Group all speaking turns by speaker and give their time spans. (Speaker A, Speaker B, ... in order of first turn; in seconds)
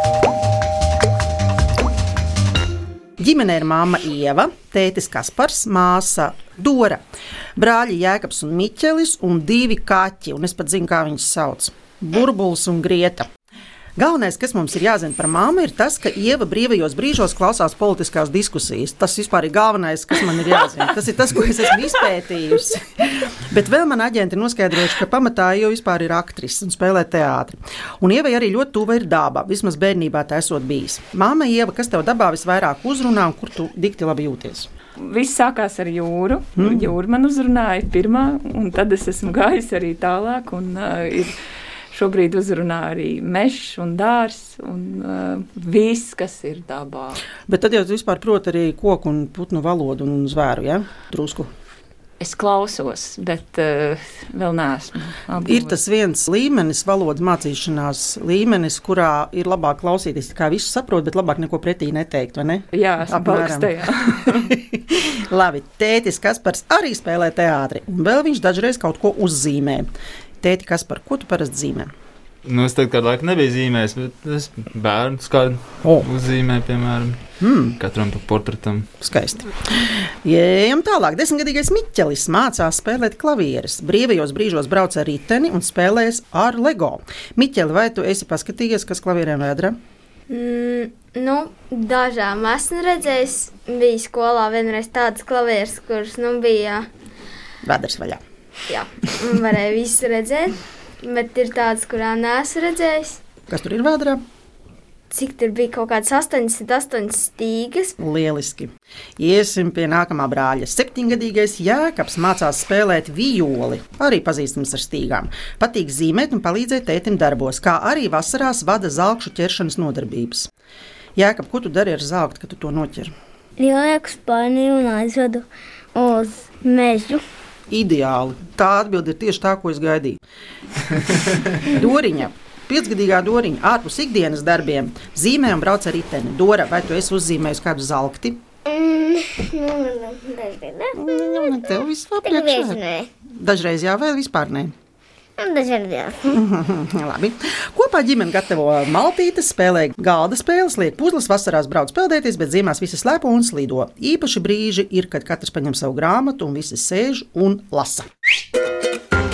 Speaker A: 3.2-7.0, 7.6-13.3, 14.0-34.7, 36.6-36.9, 47.5-51.5, 55.4-69.9, 70.4-71.9, 77.4-77.8, 79.0-89.8, 97.6-98.2, 103.5-104.2, 108.0-120.5, 121.2-123.1, 127.7-130.2, 131.6-138.4, 140.9-144.8, 146.3-158.1
Speaker B: 35.0-41.4, 41.9-47.2, 52.2-55.8, 62.7-64.5
Speaker C: 72.5-77.2, 77.8-78.9
Speaker D: 90.3-96.9, 98.7-103.2, 105.1-108.0
Speaker E: 123.6-127.2, 138.7-141.7, 142.2-143.1, 145.4-146.4